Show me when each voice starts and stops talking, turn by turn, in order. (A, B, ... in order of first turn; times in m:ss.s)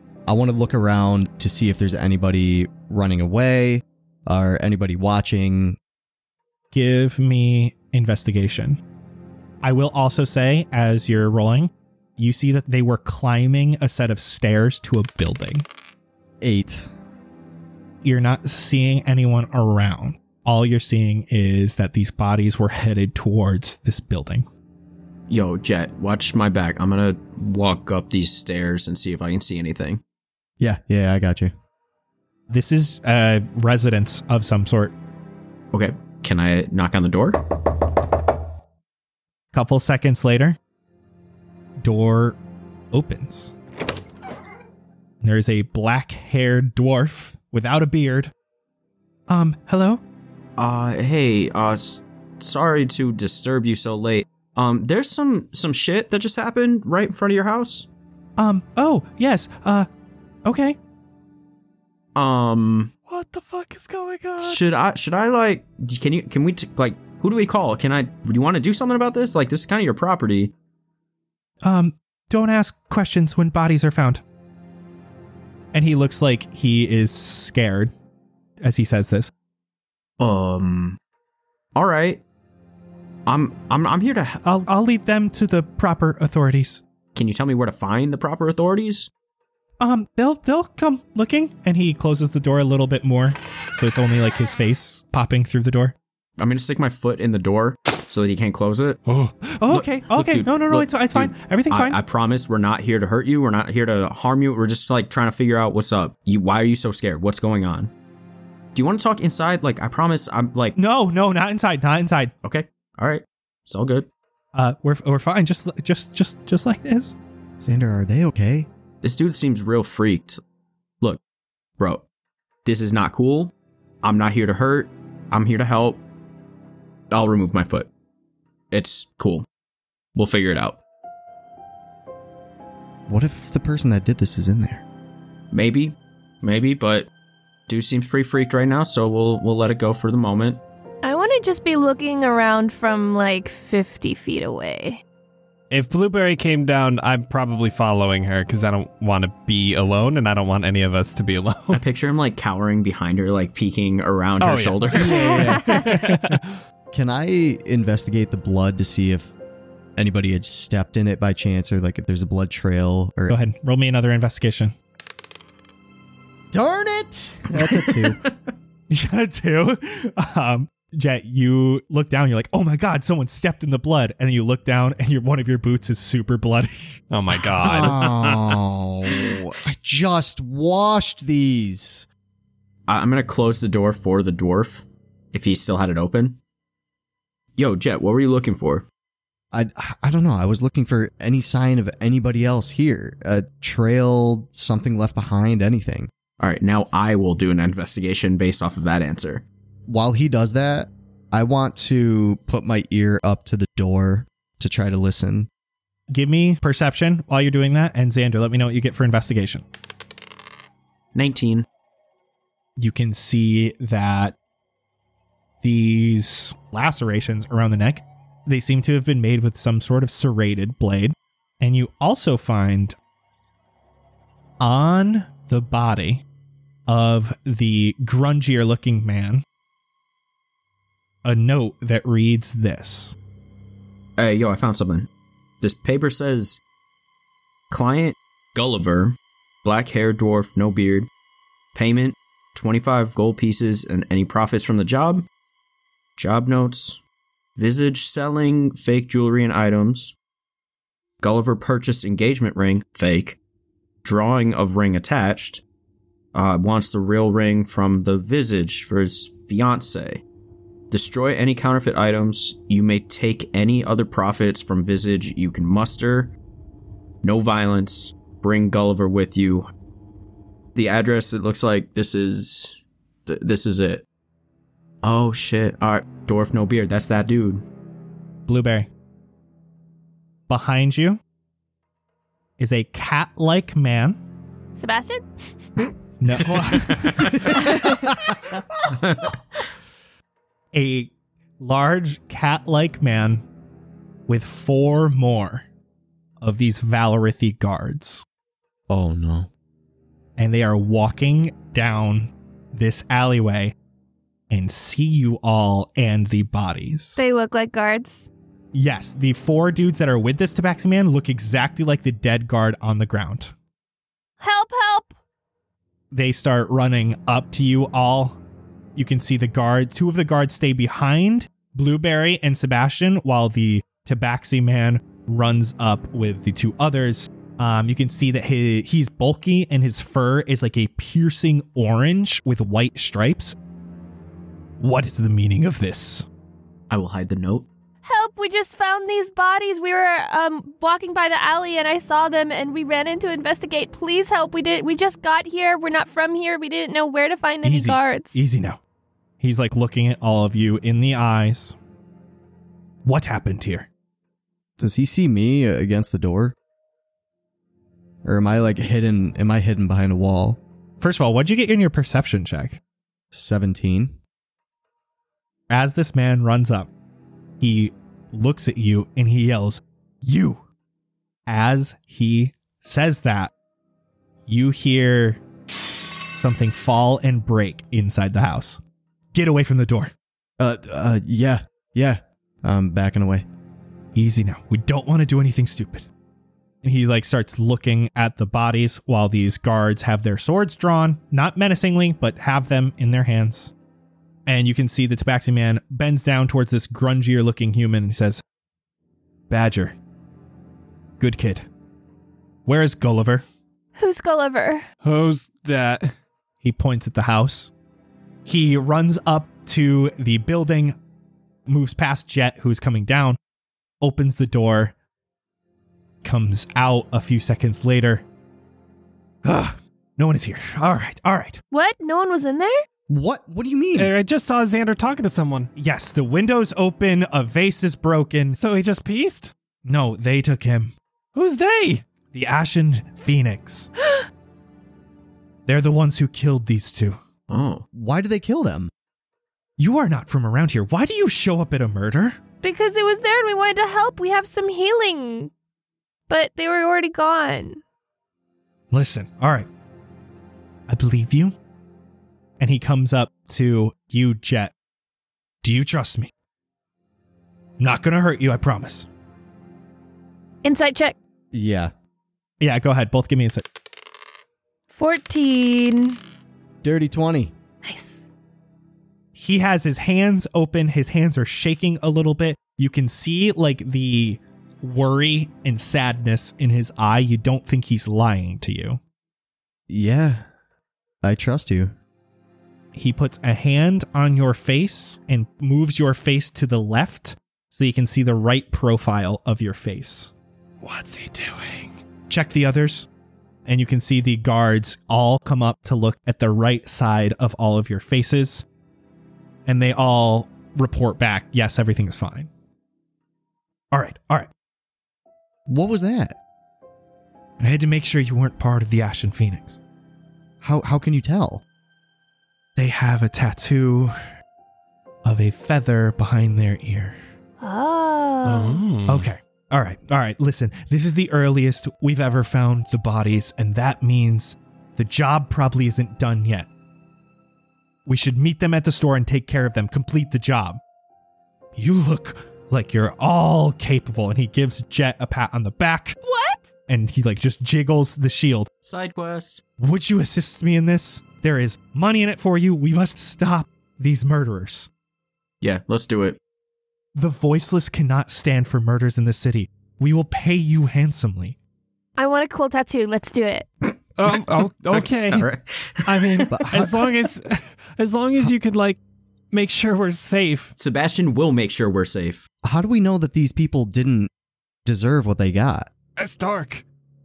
0:00.2-0:05.8 A
0:06.7-0:08.8 B
0:09.6-0:15.6 B
0:16.4-0:16.9 A
0:18.0-0:24.4 B
0:25.3-0:30.0 C
0:30.6-0:31.5 A
0:32.5-0:34.9 B
0:35.7-0:37.4 C
0:39.5-0:40.6 B
0:41.8-0:42.4 B
0:42.9-0:43.5 B
0:45.2-0:48.3 B
0:49.3-0:50.0 B
0:50.6-0:57.9 C
0:58.4-0:59.9 B
1:00.4-1:00.8 B
1:02.1-1:02.9 C
1:03.1-1:04.6 D
1:04.4-1:10.5 C
1:11.6-1:14.2 B
1:15.7-1:17.9 B
1:18.6-1:19.3 B
1:20.2-1:21.0 C
1:21.7-1:22.2 C
1:23.3-1:24.4 C
1:24.4-1:26.8 B
1:27.1-1:29.1 C
1:29.8-1:35.9 B
1:36.4-1:39.0 C
1:39.1-1:39.3 D
1:39.6-1:42.0 B
1:39.7-1:47.9 C
1:48.7-1:50.8 C
1:50.8-1:52.3 B
1:52.4-1:54.1 C
1:54.5-1:57.1 B
1:57.6-1:58.7 A
1:59.0-2:00.4 C
2:01.8-2:02.0 C
2:02.6-2:06.0 C
2:07.1-2:07.9 C
2:08.7-2:09.4 C
2:10.1-2:10.8 C
2:13.1-2:14.8 A
2:15.5-2:17.1 C
2:17.7-2:20.6 C
2:21.0-2:25.0 E
2:25.7-2:31.8 D
2:31.7-2:35.2 C
2:34.4-2:36.6 D
2:34.9-2:36.1 A
2:35.2-2:35.8 E
2:36.9-2:39.3 A
2:40.0-2:43.4 A
2:43.3-2:44.7 B
2:46.5-2:48.2 A
2:47.6-2:48.3 C
2:48.9-2:57.0 B
2:57.1-2:58.6 D
2:57.6-3:02.1 A
3:02.9-3:06.4 C
3:07.6-3:08.8 C
3:09.5-3:16.1 A
3:16.4-3:19.4 C
3:19.9-3:25.5 A
3:26.1-3:29.6 B
3:31.1-3:31.6 C
3:32.8-3:34.3 B
3:35.6-3:43.0 B
3:44.6-3:46.2 B
3:46.9-3:49.4 B
3:51.2-3:53.1 B
3:54.2-3:55.1 C
3:55.6-3:56.6 C
3:57.7-4:01.1 C
4:01.7-4:05.2 C
4:06.2-4:07.0 C
4:07.6-4:10.1 C
4:11.2-4:13.4 C
4:14.0-4:15.6 C
4:16.3-4:20.2 C
4:20.9-4:26.3 C
4:27.2-4:29.7 C
4:30.7-4:34.0 C
4:35.0-4:37.6 C
4:38.5-4:38.9 B
4:40.5-4:41.2 B
4:42.6-4:44.2 B
4:44.7-4:45.2 E
4:46.2-4:47.6 B
4:47.5-4:48.0 E
4:50.7-4:53.4 B
4:54.3-4:55.6 B
4:56.4-4:58.2 B
4:58.9-4:59.5 A
5:00.4-5:03.7 B
5:04.5-5:07.2 B
5:07.2-5:08.3 E
5:08.7-5:13.5 B
5:14.4-5:15.1 E
5:16.1-5:18.4 B
5:19.0-5:33.6 B
5:34.8-5:36.2 B
5:36.9-5:37.7 C
5:38.0-5:48.4 E
5:47.6-5:48.8 B
5:49.4-5:51.8 B
5:53.0-5:53.9 B
5:54.8-5:56.5 A
5:58.2-6:00.6 A
6:01.0-6:02.8 B
6:03.3-6:04.1 A
6:05.7-6:06.9 B
6:07.6-6:10.6 B
6:11.5-6:13.5 B
6:14.5-6:15.4 B
6:16.3-6:18.8 B
6:19.3-6:20.1 B
6:20.6-6:23.4 A
6:24.1-6:26.1 B
6:26.8-6:33.7 B
6:34.4-6:38.4 B
6:39.5-6:39.9 B
6:41.2-6:41.6 B
6:42.6-6:43.4 B
6:44.0-6:44.8 E
6:45.0-6:46.1 D
6:46.6-6:47.7 B
6:48.4-6:51.0 B
6:51.7-6:53.4 B
6:54.0-6:54.9 B
6:56.2-6:58.2 B
6:59.4-7:01.6 B
7:01.7-7:02.8 E
7:03.1-7:04.1 A
7:03.9-7:05.7 D
7:05.8-7:08.6 B
7:08.6-7:09.5 D
7:09.8-7:10.9 B
7:11.3-7:12.0 D
7:12.3-7:13.9 B
7:15.7-7:17.2 B
7:17.5-7:17.8 C
7:17.9-7:18.9 A
7:19.8-7:22.4 B
7:22.6-7:25.5 E
7:26.3-7:27.8 E
7:28.9-7:29.7 B
7:30.9-7:31.5 B
7:32.6-7:34.7 B
7:35.6-7:36.3 B
7:37.8-7:39.1 B
7:40.6-7:41.2 E
7:41.5-7:41.9 A
7:42.6-7:43.6 B
7:44.9-7:46.2 E
7:46.8-7:47.5 A
7:47.8-7:48.3 E
7:49.3-7:59.0 B
7:59.9-8:00.5 A
8:01.2-8:01.9 A
8:02.9-8:10.3 B
8:10.8-8:12.0 D
8:12.3-8:13.1 B
8:13.7-8:18.6 B
8:19.6-8:22.5 B
8:23.9-8:24.5 B
8:25.7-8:26.4 A
8:27.6-8:29.8 B
8:30.6-8:31.6 A
8:32.8-8:34.1 B
8:35.2-8:37.1 B
8:37.6-8:38.8 E
8:38.4-8:39.3 D
8:39.1-8:46.7 B
8:48.0-8:50.8 B
8:51.8-8:56.2 B
8:56.2-8:56.7 E
8:56.9-8:58.7 B
8:58.8-8:59.6 C
8:59.8-9:04.9 B
9:05.6-9:06.4 C
9:07.1-9:11.6 B
9:12.2-9:13.7 E
9:14.2-9:15.5 D
9:14.2-9:16.5 C
9:16.0-9:19.0 D
9:16.5-9:17.0 A
9:19.5-9:20.7 D
9:20.7-9:22.4 C
9:22.6-9:24.3 A
9:24.8-9:25.9 A
9:26.2-9:26.8 D